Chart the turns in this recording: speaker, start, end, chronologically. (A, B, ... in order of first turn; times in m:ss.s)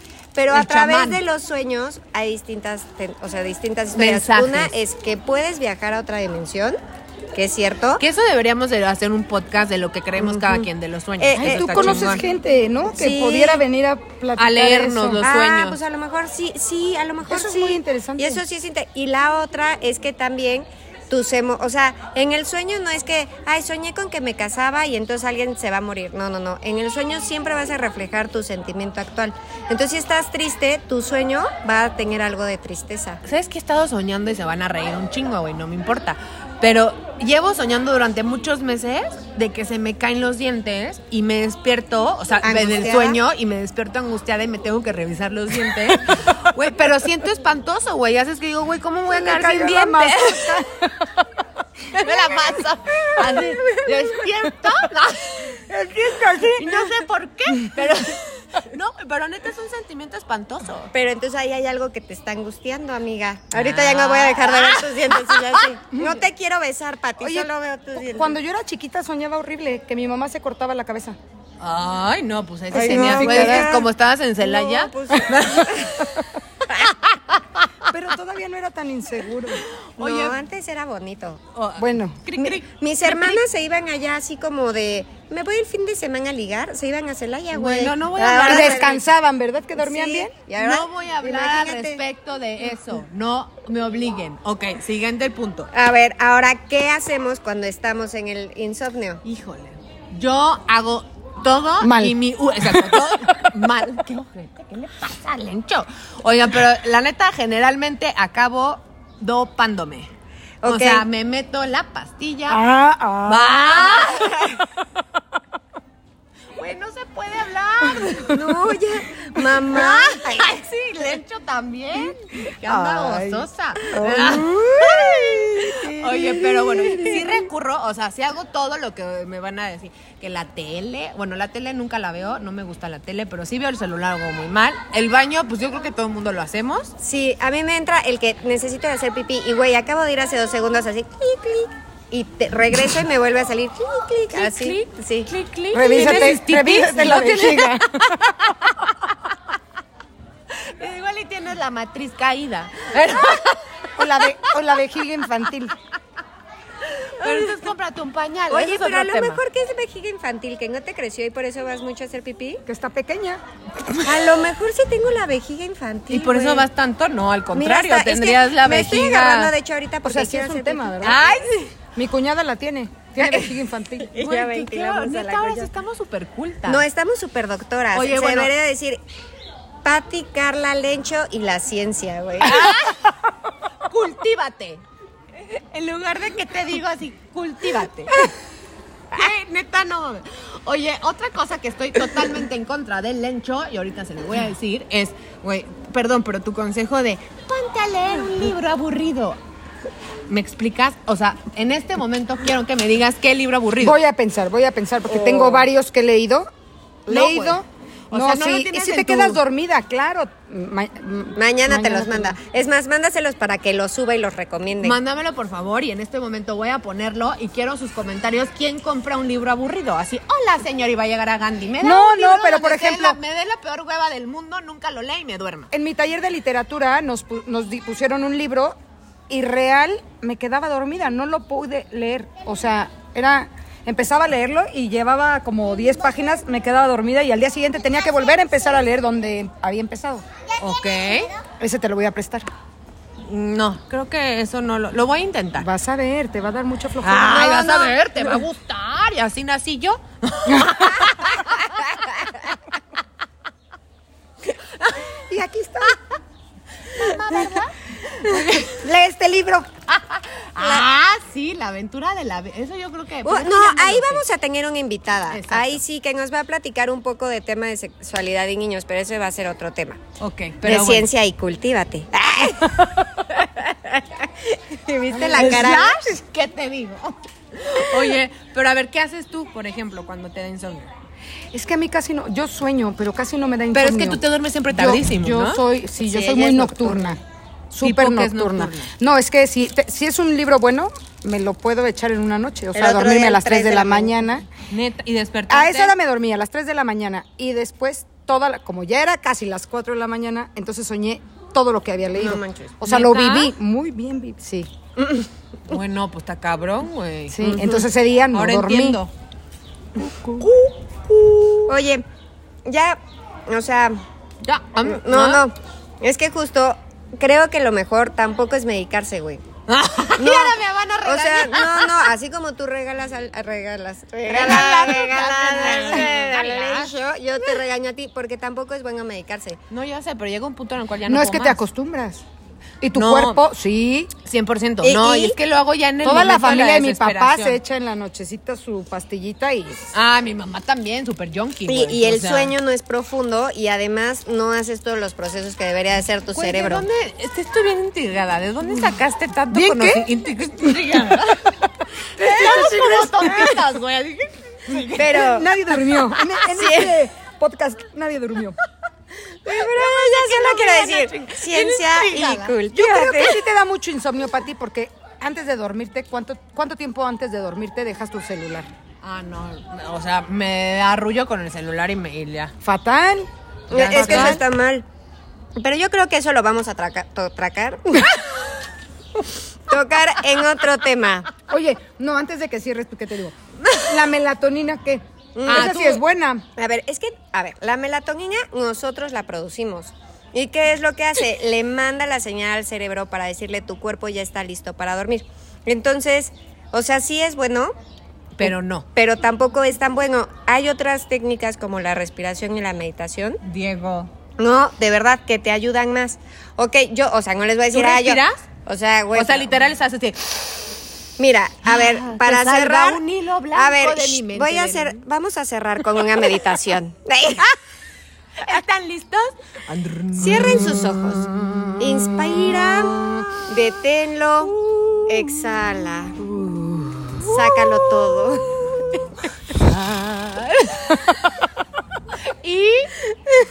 0:00.3-0:06.8 A
0:00.5-0:01.2 B
0:03.9-0:04.7 B
0:07.3-0:08.0 A
0:08.0-0:12.2 B
0:10.2-0:10.7 A
0:11.2-0:12.2 A
0:11.3-0:15.3 C
0:12.9-0:13.6 A
0:14.4-0:15.8 B
0:15.2-0:33.2 A
0:17.3-0:18.4 C
0:33.2-0:50.6 B
0:42.4-0:43.2 A
0:49.1-0:50.9 C
0:51.9-0:55.6 B
0:52.0-0:52.5 C
0:53.2-0:54.0 C
0:55.6-0:56.9 C
0:56.6-1:00.9 B
1:00.9-1:08.4 A
1:03.5-1:05.7 B
1:05.9-1:06.2 C
1:07.2-1:07.5 C
1:08.0-1:11.2 C
1:11.6-1:16.2 B
1:12.7-1:13.8 C
1:12.7-1:13.9 A
1:14.4-1:16.0 A
1:16.7-1:17.2 B
1:17.9-1:19.6 C
1:19.8-1:20.4 B
1:20.0-1:21.4 A
1:21.5-1:23.4 B
1:21.8-1:22.2 C
1:22.4-1:29.0 A
1:27.5-1:29.0 B
1:28.4-1:30.4 C
1:29.8-1:32.0 A
1:30.6-1:35.7 B
1:35.7-1:39.2 A
1:39.2-1:50.1 B
1:41.8-1:42.2 C
1:50.6-1:51.0 A
1:50.6-1:52.6 B
1:52.5-1:54.0 C
1:53.2-1:54.4 B
1:54.0-1:54.6 A
1:56.6-1:58.4 B
1:58.3-2:00.6 A
1:59.4-2:16.9 B
2:01.9-2:03.0 C
2:02.9-2:03.4 A
2:03.9-2:07.3 A
2:04.0-2:04.6 C
2:05.2-2:05.6 C
2:06.2-2:07.2 C
2:17.0-2:25.3 A
2:24.3-2:28.9 B
2:25.7-2:28.2 C
2:30.5-2:33.6 B
2:34.0-2:35.7 C
2:34.2-2:34.5 B
2:37.2-2:39.4 B
2:37.2-2:37.5 A
2:38.5-2:42.6 A
2:42.6-2:43.4 C
2:44.0-2:46.6 A
2:46.1-2:49.5 B
2:47.5-2:51.4 A
2:50.0-2:51.2 C
2:51.0-2:51.7 B
2:52.0-2:54.1 C
2:53.2-2:56.8 B
2:54.0-2:55.7 A
2:56.6-2:59.0 A
2:57.9-2:58.5 B
2:59.8-3:02.7 A
3:02.4-3:03.1 B
3:03.9-3:04.8 B
3:05.5-3:08.1 B
3:09.1-3:19.4 B
3:20.3-3:24.0 B
3:23.8-3:26.5 C
3:25.1-3:25.6 A
3:27.0-3:32.4 C
3:27.1-3:29.4 B
3:31.4-3:35.0 A
3:34.8-3:45.7 B
3:41.8-3:43.2 C
3:45.7-3:48.8 C
3:49.3-4:00.2 C
4:00.6-4:01.3 B
4:01.6-4:02.4 C
4:03.2-4:05.7 B
4:05.6-4:08.4 C
4:07.0-4:12.4 B
4:10.5-4:10.8 C
4:15.3-4:16.0 C
4:16.9-4:17.7 B
4:18.3-4:19.7 A
4:19.9-4:24.2 B
4:20.6-4:20.8 A
4:23.2-4:30.0 A
4:25.3-4:25.8 B
4:30.2-4:31.1 B
4:30.6-4:32.7 A
4:34.7-4:36.1 A
4:35.1-4:40.9 B
4:41.5-4:54.4 C
4:43.7-4:45.6 B
4:46.0-4:47.2 A
4:47.8-4:48.9 B
4:52.7-4:54.2 A
4:54.7-4:56.0 B
4:55.5-5:04.7 C
5:02.2-5:02.8 A
5:02.8-5:03.5 B
5:05.0-5:05.3 A
5:05.7-5:09.1 B
5:07.3-5:09.0 C
5:10.4-5:11.6 B
5:11.7-5:12.0 A
5:12.6-5:14.0 A
5:14.4-5:15.4 B
5:14.8-5:19.4 A
5:19.7-5:22.1 B
5:20.2-5:29.6 A
5:24.2-5:27.6 B
5:24.4-5:24.9 C
5:25.6-5:26.1 C
5:29.7-5:31.6 B
5:31.1-5:32.2 C
5:32.8-5:34.1 C
5:32.9-5:33.4 B
5:34.2-5:37.6 B
5:34.8-5:35.4 A
5:36.0-5:39.9 C
5:39.9-5:42.5 B
5:41.7-5:46.8 A
5:46.3-5:51.5 B
5:49.5-5:50.1 C
5:50.9-5:51.5 C
5:52.1-5:56.3 B
5:52.2-5:53.6 C
5:54.9-5:55.5 A
5:55.0-5:58.6 C
5:56.5-5:57.0 A
5:59.4-6:02.6 B
5:59.4-6:03.4 A
6:02.7-6:08.7 C
6:09.0-6:12.5 B
6:12.6-6:14.4 C
6:13.7-6:14.8 A
6:13.8-6:14.4 B
6:15.6-6:18.2 A
6:19.7-6:21.3 A
6:21.5-6:26.4 C
6:25.4-6:26.0 A
6:25.5-6:26.0 B
6:26.6-6:37.7 A
6:38.4-6:38.8 B
6:38.4-6:43.4 A
6:43.4-6:44.1 B
6:44.4-6:49.5 A
6:47.7-6:48.4 B
6:49.1-6:50.4 B
6:51.2-6:53.0 A
6:51.6-6:55.0 B
6:53.5-6:57.5 A
6:58.4-7:01.7 B
7:00.1-7:04.5 A
7:05.0-7:06.2 A
7:06.3-7:07.4 C
7:07.2-7:08.6 A
7:09.7-7:10.8 B
7:12.4-7:12.9 B